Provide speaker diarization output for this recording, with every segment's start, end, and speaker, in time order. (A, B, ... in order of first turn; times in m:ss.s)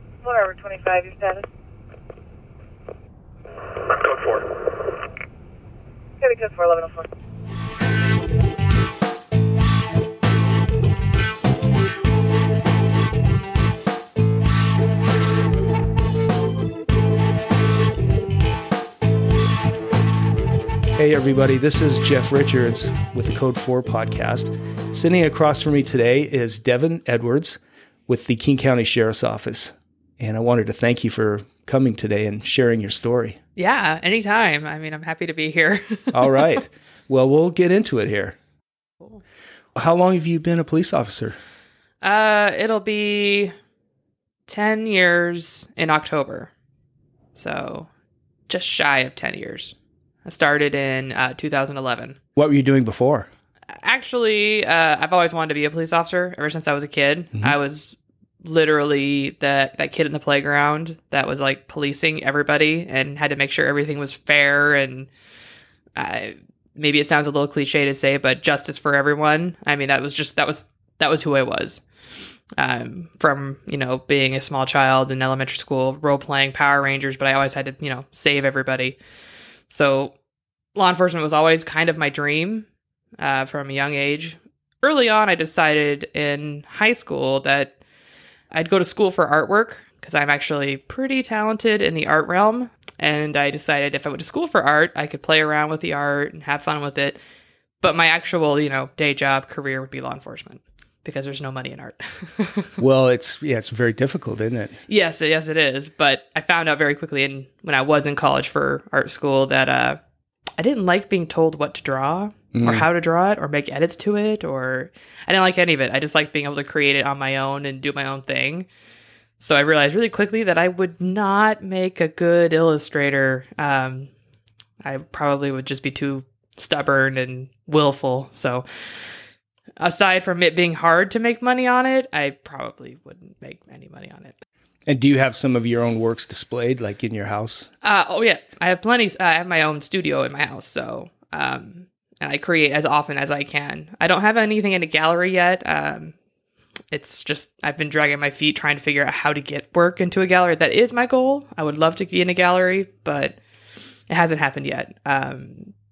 0:00.2-0:01.5 A
0:06.2-0:07.1 A
0:21.0-0:33.4 B
0:33.6-0:36.6 C
0:36.1-0:38.4 B
0:39.8-0:41.4 B
0:42.0-0:43.5 C
0:44.5-0:46.5 C
0:47.4-0:47.9 C
0:48.5-0:52.2 C
0:52.4-0:53.3 B
0:53.8-1:05.1 C
1:06.0-1:11.8 C
1:12.6-1:19.0 C
1:19.7-1:20.2 C
1:20.8-1:22.7 C
1:23.2-1:27.8 C
1:28.5-1:37.2 C
1:37.8-1:42.8 C
1:42.8-1:44.8 B
1:44.9-1:50.0 C
1:50.6-1:58.7 C
1:52.5-1:52.9 B
1:59.4-2:04.1 C
2:04.8-2:08.7 C
2:09.8-2:14.4 C
2:14.9-2:17.7 B
2:17.8-2:26.2 C
2:26.9-2:33.4 C
2:34.1-2:35.7 C